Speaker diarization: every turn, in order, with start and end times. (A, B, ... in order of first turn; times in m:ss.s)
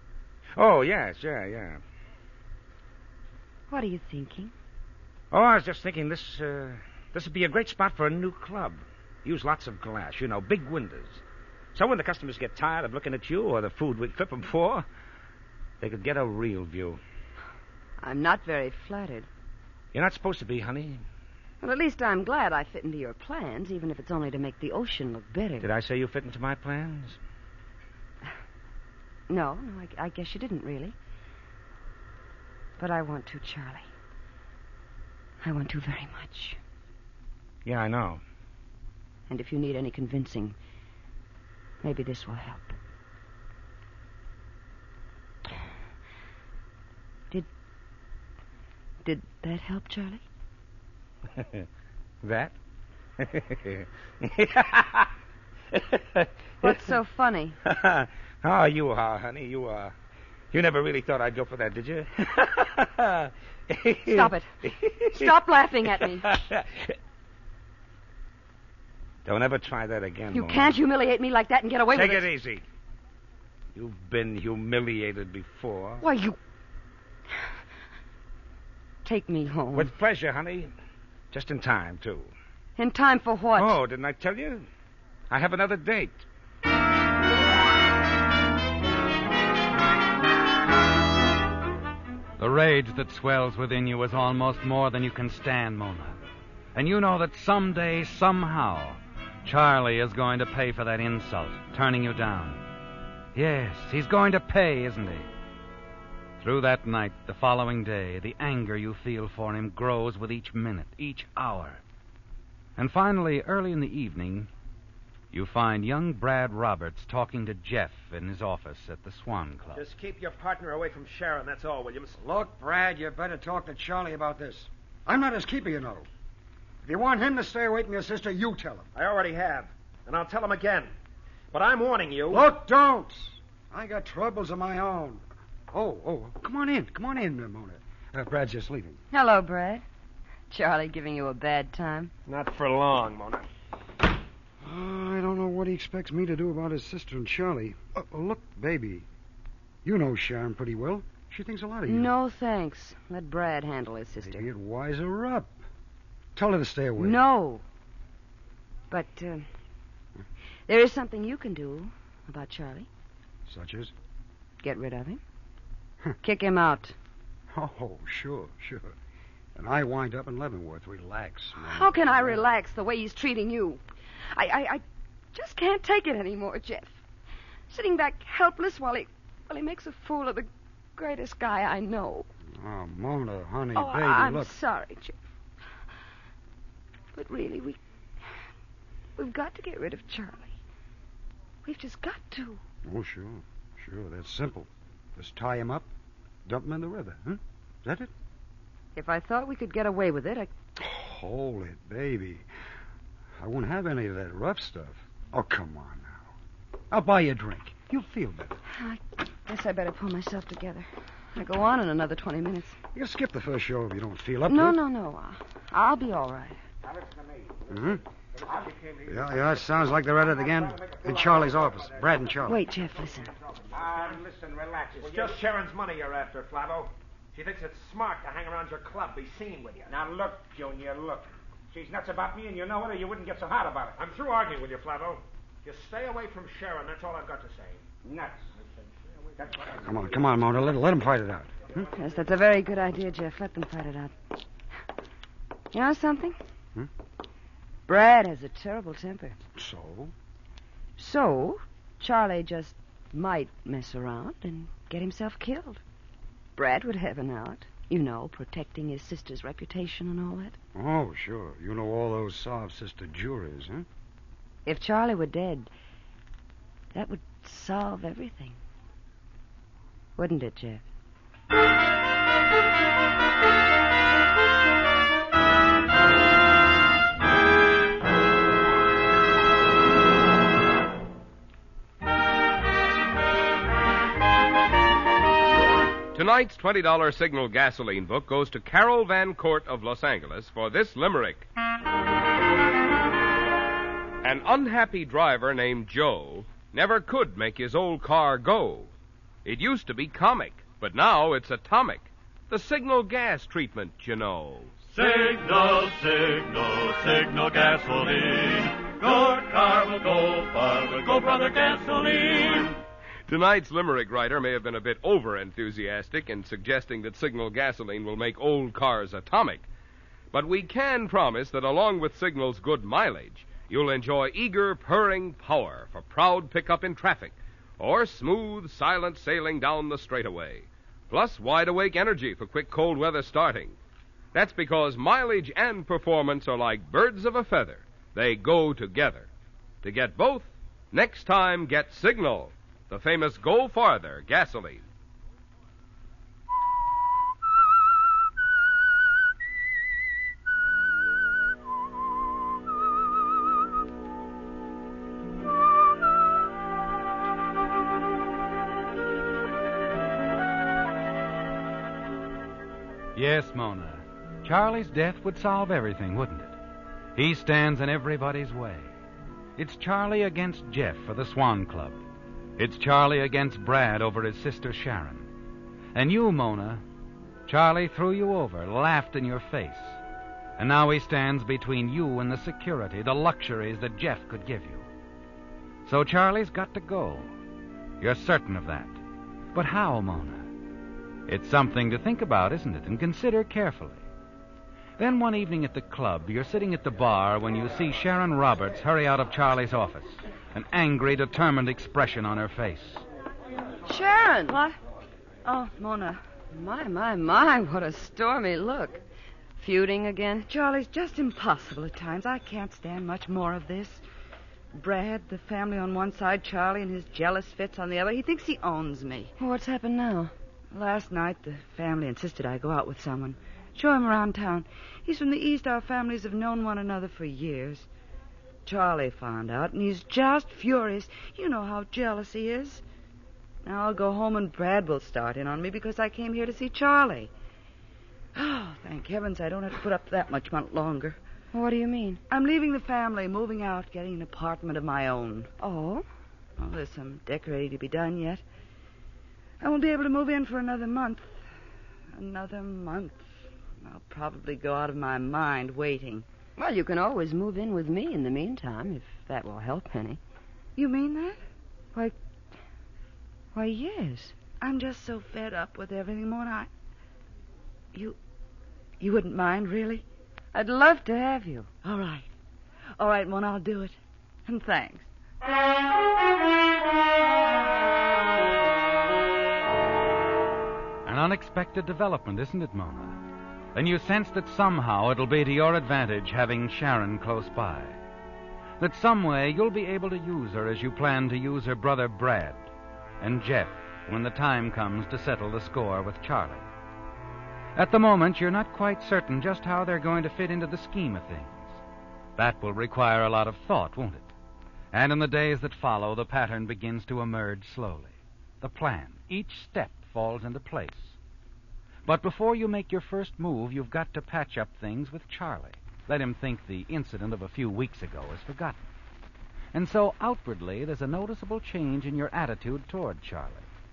0:00.6-0:01.8 A
0:03.7-0:04.5 B
0:05.3-0:11.2 A
0:11.7-0:14.8 A
0:15.8-0:17.0 A
0:18.0-0:19.3 B
0:19.9-0:21.0 A
0:21.6-0:25.7 B
0:25.6-0:27.2 A
0:29.3-0:30.9 B
0:32.8-0:33.9 B
0:35.4-0:36.6 B
0:37.6-0:38.2 A
0:39.3-0:40.6 B
0:41.8-0:42.7 B
0:49.0-0:50.2 B
0:52.2-0:52.5 A
0:53.2-0:55.1 A
0:55.7-0:56.8 A
0:56.6-0:57.6 B
0:57.6-0:59.9 A
1:00.5-1:05.2 A
1:04.0-1:04.5 B
1:05.0-1:06.4 B
1:06.2-1:06.7 A
1:09.2-1:10.8 A
1:10.3-1:12.3 B
1:11.9-1:12.6 A
1:13.7-1:16.0 A
1:16.0-1:16.4 B
1:19.0-1:19.9 B
1:19.7-1:20.7 A
1:21.3-1:22.3 A
1:22.8-1:23.8 B
1:23.6-1:24.7 A
1:25.3-1:26.2 A
1:32.4-1:36.2 C
1:36.7-1:42.6 C
1:43.3-1:45.3 C
1:46.4-1:51.8 C
1:52.8-1:54.5 C
1:55.3-1:59.8 C
1:59.7-2:02.2 D
2:02.2-2:06.1 E
2:06.8-2:08.9 E
2:08.9-2:10.9 D
2:11.5-2:12.4 D
2:12.3-2:19.0 E
2:19.1-2:19.8 B
2:20.5-2:22.1 B
2:22.3-2:23.4 D
2:24.6-2:29.1 E
2:29.8-2:32.1 E
2:31.9-2:34.4 B
2:34.2-2:35.5 E
2:36.3-2:37.2 E
2:37.0-2:37.6 B
2:38.9-2:39.5 B
2:40.7-2:42.9 B
2:43.5-2:43.9 E
2:44.6-2:45.2 B
2:46.2-2:46.9 B
2:47.5-2:49.0 E
2:49.6-2:52.4 E
2:51.6-2:54.8 B
2:55.3-2:57.0 B
2:57.7-3:02.3 B
3:02.5-3:04.5 E
3:03.7-3:05.2 B
3:07.1-3:07.8 B
3:09.2-3:10.6 B
3:11.6-3:12.6 B
3:12.8-3:15.9 E
3:16.4-3:18.1 E
3:18.9-3:20.5 B
3:20.8-3:22.4 E
3:23.4-3:26.3 E
3:26.9-3:28.6 E
3:28.7-3:32.8 B
3:32.9-3:34.8 E
3:34.5-3:36.6 B
3:36.8-3:37.7 A
3:37.7-3:38.0 E
3:38.4-3:38.7 A
3:38.6-3:39.5 D
3:39.0-3:42.6 E
3:40.4-3:42.4 A
3:42.4-3:43.3 B
3:43.6-3:44.2 D
3:43.7-3:45.4 A
3:45.0-3:50.0 D
3:49.9-3:54.0 A
3:54.0-3:57.8 D
3:58.0-3:58.5 A
3:59.4-3:59.8 A
3:59.8-4:01.8 E
4:01.9-4:04.1 B
4:05.7-4:06.4 B
4:07.9-4:09.4 B
4:09.6-4:10.1 E
4:11.0-4:15.8 B
4:16.6-4:20.6 B
4:20.7-4:23.8 E
4:24.6-4:25.7 B
4:26.9-4:28.6 B
4:30.2-4:30.8 B
4:46.1-4:51.4 F
4:54.2-4:58.9 F
4:59.4-5:04.7 F
5:04.9-5:12.8 G
5:13.3-5:19.6 F
5:20.3-5:33.8 F
5:34.3-5:39.3 F
5:39.8-5:44.8 F
6:03.1-6:06.6 C
6:07.1-6:08.9 C
6:09.6-6:12.0 C
6:12.6-6:15.3 C
6:15.9-6:16.8 C
6:17.4-6:20.0 C
6:20.6-6:24.9 C
6:25.8-6:27.3 C
6:28.0-6:29.0 C
6:29.5-6:30.5 C
6:31.3-6:34.0 C
6:35.0-6:43.0 C
6:43.9-6:44.6 B
6:44.5-6:44.8 H
6:45.4-6:46.2 H
6:46.5-6:49.0 B
6:49.6-6:50.5 B
6:50.5-6:54.0 H
6:54.8-6:59.3 H
6:59.4-7:00.3 B
7:00.7-7:07.9 H
7:08.6-7:12.8 H
7:13.6-7:17.3 H
7:18.3-7:21.2 H
7:21.5-7:22.2 B
7:22.3-7:25.6 H
7:25.6-7:26.0 B
7:26.6-7:28.4 H
7:29.6-7:31.4 H
7:32.1-7:33.2 H
7:33.8-7:36.2 H
7:36.6-7:40.2 B
7:40.8-7:41.4 H
7:43.5-7:44.4 B
7:44.6-7:46.7 H
7:49.0-7:50.0 H
7:50.5-7:51.7 B
7:51.8-7:52.3 H
7:53.0-7:55.1 H
8:01.0-8:03.2 C
8:03.7-8:08.0 C
8:08.8-8:12.7 C
8:13.2-8:16.7 C
8:17.7-8:21.8 C
8:22.4-8:24.3 C
8:24.9-8:31.2 C
8:32.0-8:38.8 C
8:39.7-8:43.6 C